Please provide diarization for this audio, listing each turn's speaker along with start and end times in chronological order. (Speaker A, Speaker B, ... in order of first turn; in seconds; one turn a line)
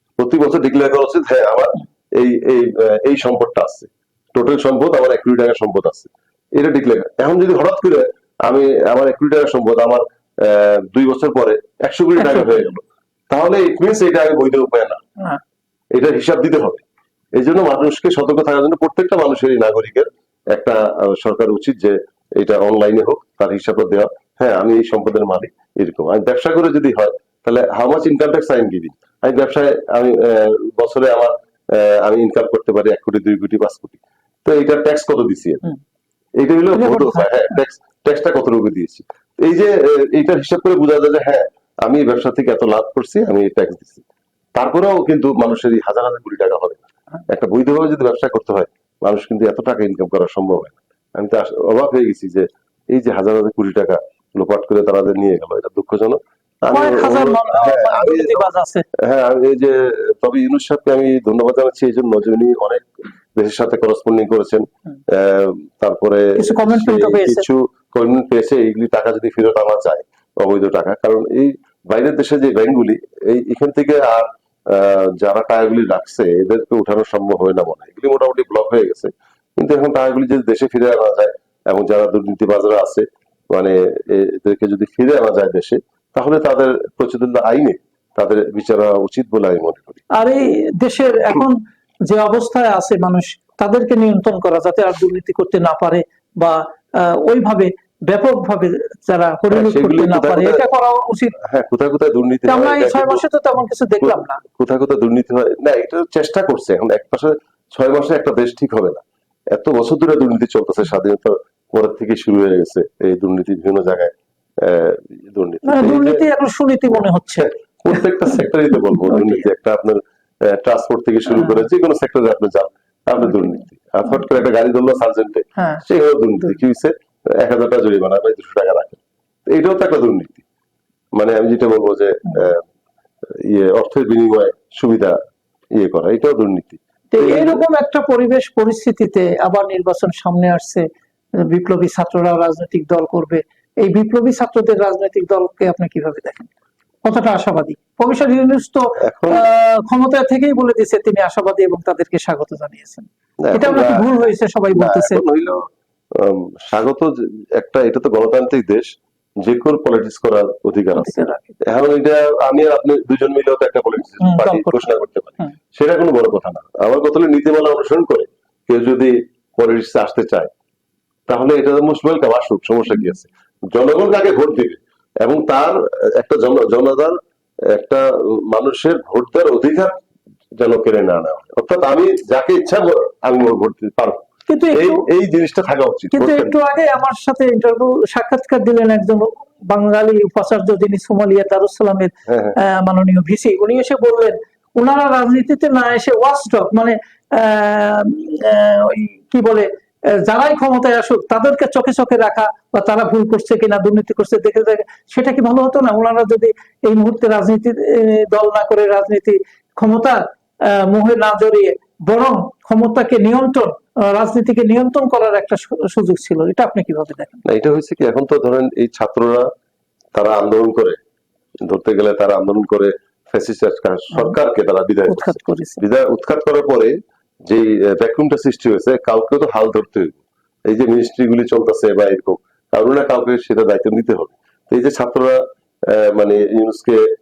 Speaker A: 0.2-15.0
Speaker B: 12.2-12.6
Speaker A: 15.9-16.8
Speaker A: 17.4-35.6
Speaker A: 36.4-44.0
Speaker B: 36.7-37.6
Speaker A: 44.5-90.0
Speaker B: 56.7-58.9
Speaker B: 66.3-67.5
Speaker B: 90.1-101.4
Speaker A: 99.5-100.6
Speaker A: 101.4-103.2
Speaker B: 102.5-104.4
Speaker A: 104.0-116.2
Speaker B: 115.6-117.5
Speaker A: 117.4-130.4
Speaker B: 119.1-119.4
Speaker B: 125.6-125.8
Speaker A: 131.2-132.6
Speaker A: 133.3-135.2
Speaker A: 135.7-137.6
Speaker B: 137.1-146.5
Speaker B: 147.0-155.2
Speaker A: 149.0-149.4
Speaker A: 153.4-154.1
Speaker A: 154.7-158.9
Speaker A: 159.4-170.5
Speaker B: 160.9-161.6
Speaker B: 164.2-165.5
Speaker A: 171.3-179.9
Speaker A: 180.6-186.5
Speaker B: 184.5-185.0
Speaker B: 186.1-217.4
Speaker A: 192.3-192.6
Speaker A: 217.4-219.5
Speaker A: 220.1-221.0
Speaker A: 221.6-226.9
Speaker B: 225.1-225.8
Speaker A: 227.4-237.1